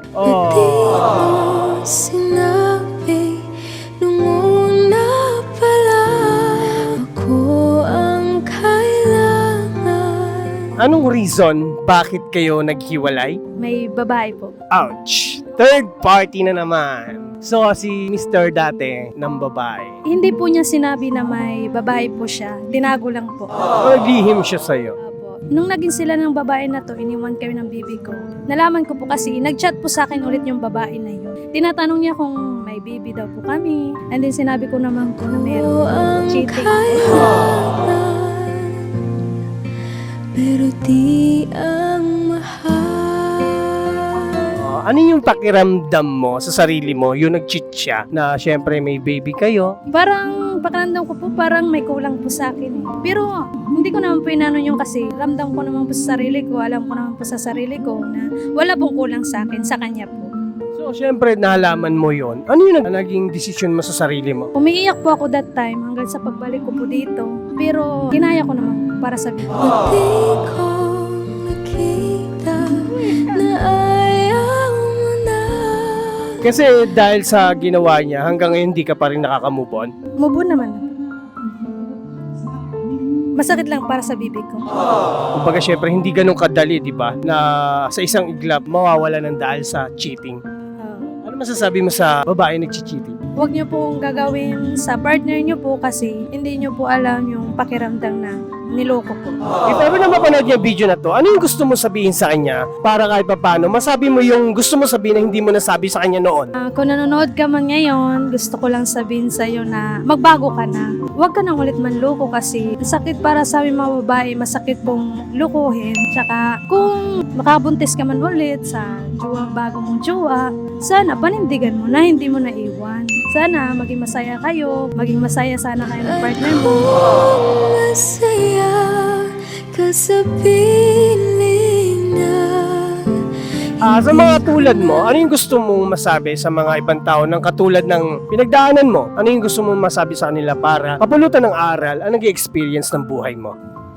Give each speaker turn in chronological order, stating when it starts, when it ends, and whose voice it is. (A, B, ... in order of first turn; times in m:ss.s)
0:00.2-0:00.9 A
0:00.2-0:03.5 B
0:04.0-0:10.7 B
0:10.8-0:13.4 A
0:13.6-0:14.6 C
0:14.7-0:19.9 A
0:20.1-0:23.5 C
0:23.8-0:25.0 A
0:25.0-0:37.1 C
0:35.1-0:38.9 B
0:40.4-0:44.6 B
0:44.6-0:49.7 A
0:49.9-1:00.3 C
1:00.8-1:04.5 A
1:04.6-1:09.5 C
1:09.6-1:16.3 B
1:12.7-1:13.4 C
1:16.4-1:19.9 A
1:20.2-1:20.9 C
1:23.4-1:24.7 C
1:25.4-1:30.4 A
1:30.8-1:31.1 C
1:31.2-1:33.2 A
1:33.4-1:39.4 C
1:39.7-1:46.5 A
1:46.7-2:06.9 C
2:05.9-2:13.1 B
2:13.8-2:15.2 B
2:13.9-2:23.6 A